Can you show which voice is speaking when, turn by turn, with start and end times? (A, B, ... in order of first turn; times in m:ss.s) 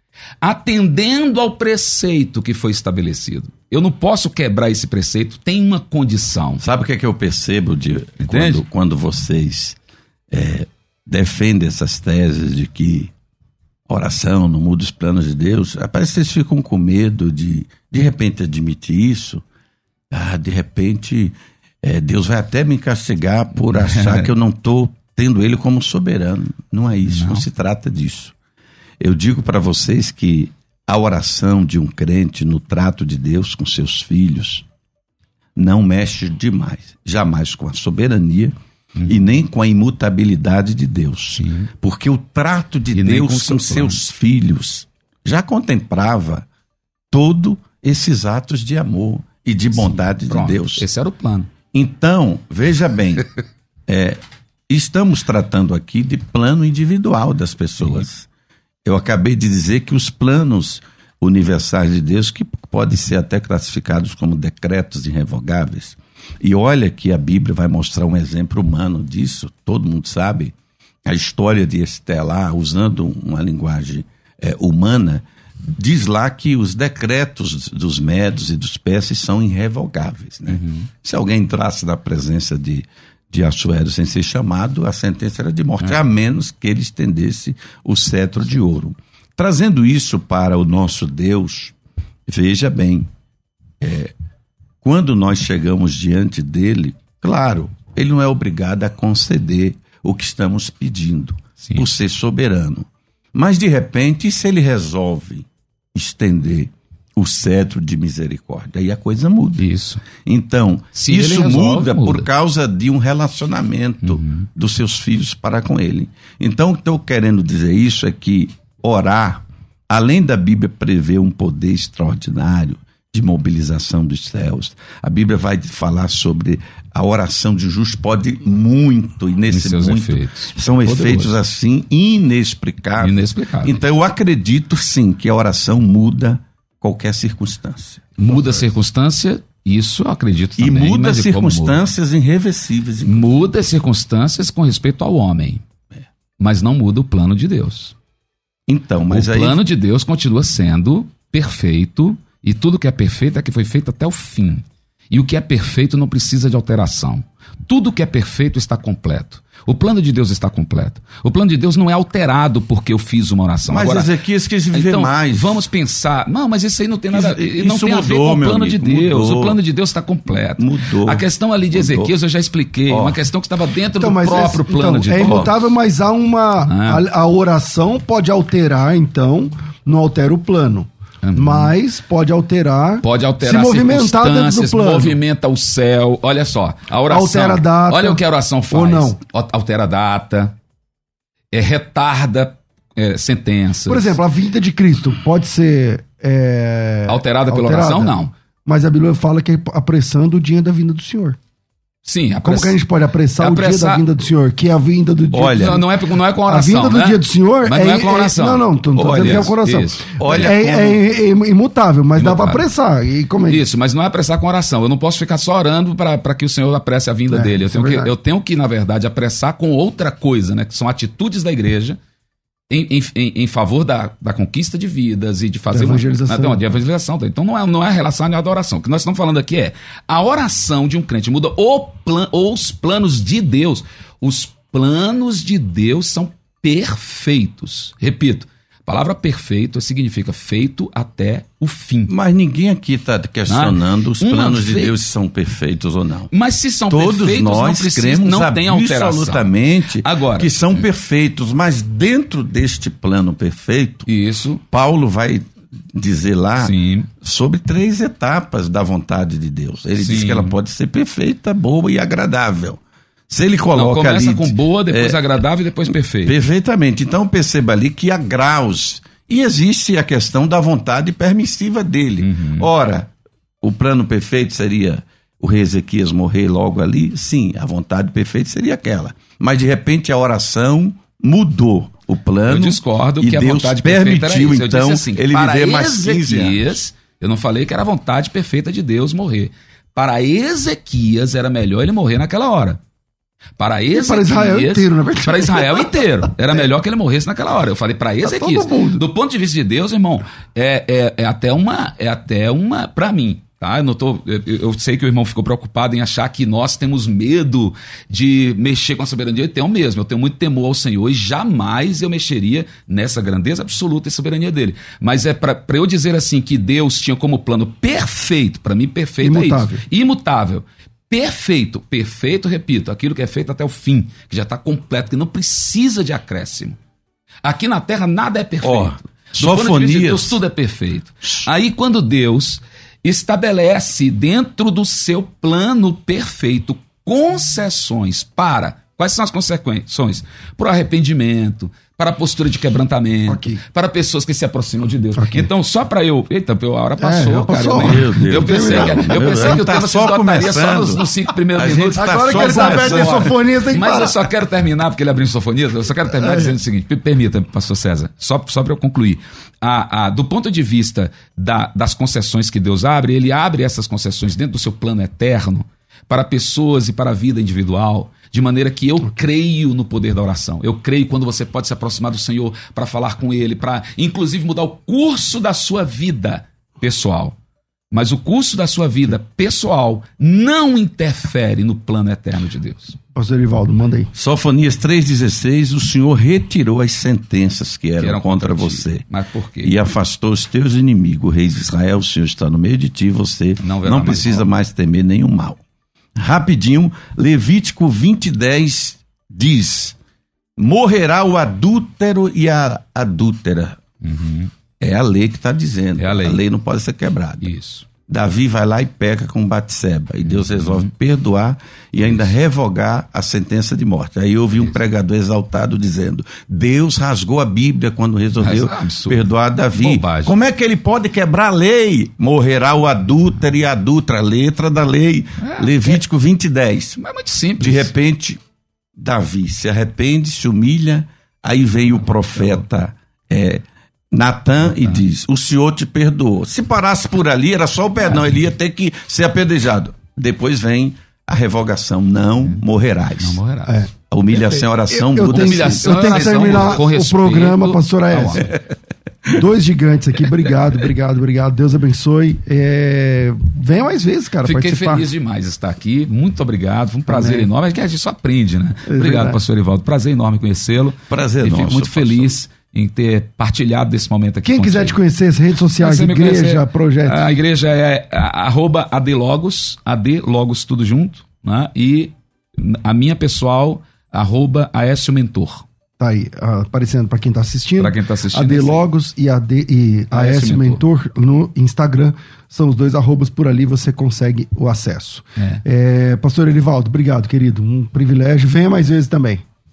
0:00.4-0:06.7 A
0:06.6-0:09.8 B
0:08.2-0:08.6 A
0:10.3-0:13.1 B
0:13.9-0:19.4 B
0:20.1-0:28.3 B
0:23.7-0:24.3 A
0:27.1-0:27.4 A
0:29.0-0:34.6 B
0:35.6-0:38.6 B
0:39.1-0:46.5 B
0:41.4-0:41.7 A
0:42.9-0:44.0 A
0:47.1-0:50.9 B
0:49.8-0:51.5 A
0:51.7-0:53.3 B
0:53.9-0:58.3 B
0:58.8-1:10.5 B
1:11.0-1:31.7 B
1:20.5-1:20.9 A
1:32.3-1:33.1 B
1:33.8-1:34.1 B
1:34.8-2:18.6 B
1:49.6-1:50.0 A
1:51.0-1:52.3 A
1:54.0-1:54.5 A
2:09.5-2:11.4 A
2:13.0-2:13.8 A
2:18.2-2:21.8 A
2:20.6-2:23.3 B
2:23.0-2:25.6 A
2:26.4-2:28.0 A
2:28.7-2:29.6 B
2:29.1-2:44.1 A
2:43.7-2:45.6 B
2:44.7-2:55.5 A
2:47.1-2:49.6 B
2:50.5-2:52.1 B
2:52.9-2:53.2 B
2:54.0-3:05.2 C
2:55.2-2:55.5 B
2:56.7-2:57.0 A
3:01.2-3:01.7 A
3:03.0-3:10.5 A
3:07.1-3:09.2 C
3:11.5-3:14.2 A
3:13.9-3:21.4 C
3:17.1-3:18.3 A
3:22.0-3:22.8 A
3:22.4-3:25.9 C
3:23.4-3:24.0 A
3:25.3-3:25.8 B
3:25.5-3:30.4 A
3:26.5-3:33.6 C
3:29.0-3:29.6 B
3:30.2-3:31.0 B
3:32.2-3:32.6 A
3:33.5-3:42.0 A
3:37.3-3:38.1 C
3:42.7-4:02.1 A
3:45.7-3:46.7 C
4:02.1-4:06.3 B
4:03.5-4:05.0 A
4:06.3-4:09.5 A
4:06.9-4:14.1 B
4:10.0-4:10.8 A
4:14.1-4:14.6 A
4:14.7-4:25.2 B
4:16.6-4:17.1 A
4:20.0-4:20.6 A
4:23.7-4:26.4 A
4:25.9-4:46.8 B
4:32.2-4:32.7 A
4:42.5-4:52.8 A
4:53.6-5:26.8 A
4:53.9-4:56.0 C
4:58.2-4:59.0 C
5:19.2-5:19.8 C
5:27.4-6:17.4 A
5:28.6-5:30.4 B
5:43.3-5:43.6 C
5:45.2-5:45.5 C
5:47.0-5:49.6 C
5:47.7-5:53.3 B
5:52.0-5:54.2 C
5:56.1-5:56.6 C
6:17.9-6:23.0 A
6:23.2-6:24.1 C
6:24.2-6:29.0 B
6:28.0-6:29.8 A
6:29.6-6:35.6 B
6:33.6-6:34.5 A
6:36.2-6:40.0 B
6:40.6-6:43.8 B
6:44.0-6:44.5 A
6:44.8-6:47.5 B
6:46.0-6:46.4 A
6:47.4-6:47.9 A
6:48.1-7:07.0 B
6:50.2-6:50.9 A
6:58.4-7:00.4 A
7:05.4-7:06.0 A
7:07.0-7:07.9 A
7:07.6-7:08.4 B
7:09.0-7:23.4 B
7:14.7-7:15.0 A
7:23.2-7:23.8 A
7:23.7-7:23.9 C
7:24.1-7:26.8 B
7:24.9-7:28.6 C
7:25.3-7:28.5 A
7:29.3-7:35.1 C
7:34.4-7:45.0 A
7:37.1-7:37.5 C
7:38.9-7:39.4 C
7:41.1-7:42.3 B
7:44.4-7:47.2 C
7:45.8-7:55.6 A
7:56.0-8:09.4 C
7:57.8-7:58.9 A
8:00.1-8:00.8 A